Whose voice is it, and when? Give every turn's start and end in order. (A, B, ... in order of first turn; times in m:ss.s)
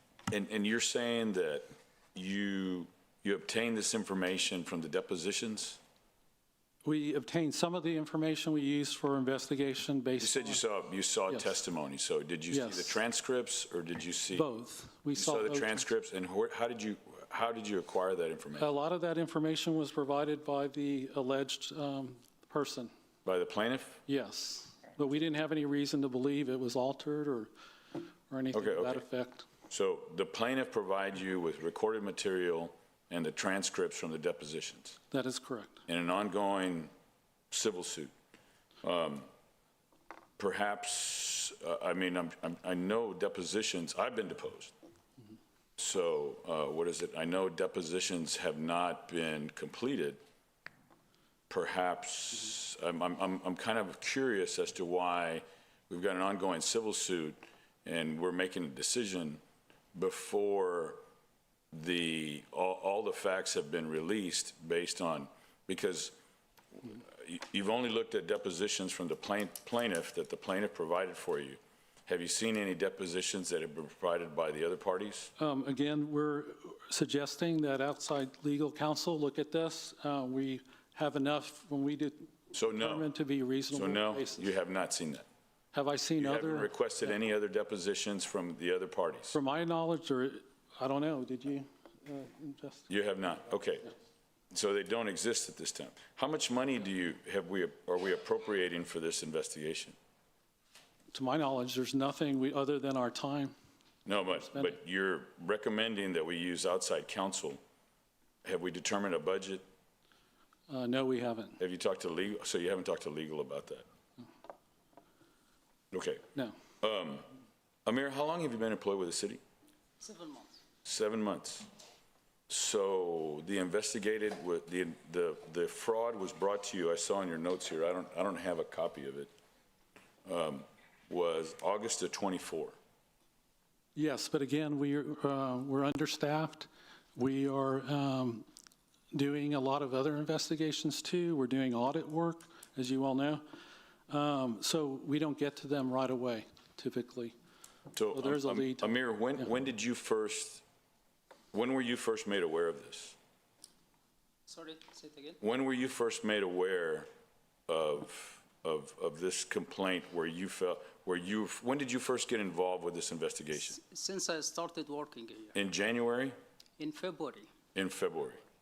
0:00.3-0:05.8 A
0:06.8-0:10.6 B
0:10.2-0:14.5 A
0:12.5-0:13.0 B
0:14.3-0:15.8 B
0:15.2-0:18.7 A
0:18.6-0:22.9 B
0:23.2-0:24.0 A
0:24.1-0:27.5 B
0:28.3-0:29.4 B
0:28.5-0:29.0 A
0:29.7-0:35.0 A
0:35.1-0:35.8 B
0:35.9-0:36.9 A
0:37.5-0:38.1 A
0:38.8-0:39.3 A
0:40.4-0:44.7 A
0:45.8-0:50.2 A
0:51.5-0:59.4 A
0:59.9-1:01.0 A
1:01.7-1:06.1 A
1:06.8-1:15.3 A
1:15.4-1:24.5 B
1:22.5-1:23.1 A
1:23.7-1:25.2 A
1:25.7-1:26.7 B
1:26.2-1:29.3 A
1:29.3-1:32.9 B
1:32.9-1:33.9 A
1:34.5-1:40.0 A
1:41.1-1:43.5 B
1:44.0-1:47.6 A
1:48.4-1:49.6 A
1:50.7-1:51.6 B
1:51.6-1:53.8 A
1:55.9-1:56.2 A
1:56.8-1:57.2 A
1:57.8-1:59.4 A
2:00.0-2:00.5 C
2:00.8-2:01.7 A
2:02.5-2:09.3 A
2:10.2-2:12.8 A
2:13.9-2:18.4 B
2:19.1-2:23.4 B
2:24.1-2:27.3 B
2:27.9-2:30.6 A
2:28.1-2:28.9 B
2:31.5-2:33.2 A
2:34.5-2:35.4 C
2:35.4-2:37.1 A
2:37.7-2:43.8 A
2:43.8-2:45.6 C
2:45.5-2:46.3 A
2:46.8-2:47.5 C
2:47.7-2:48.4 A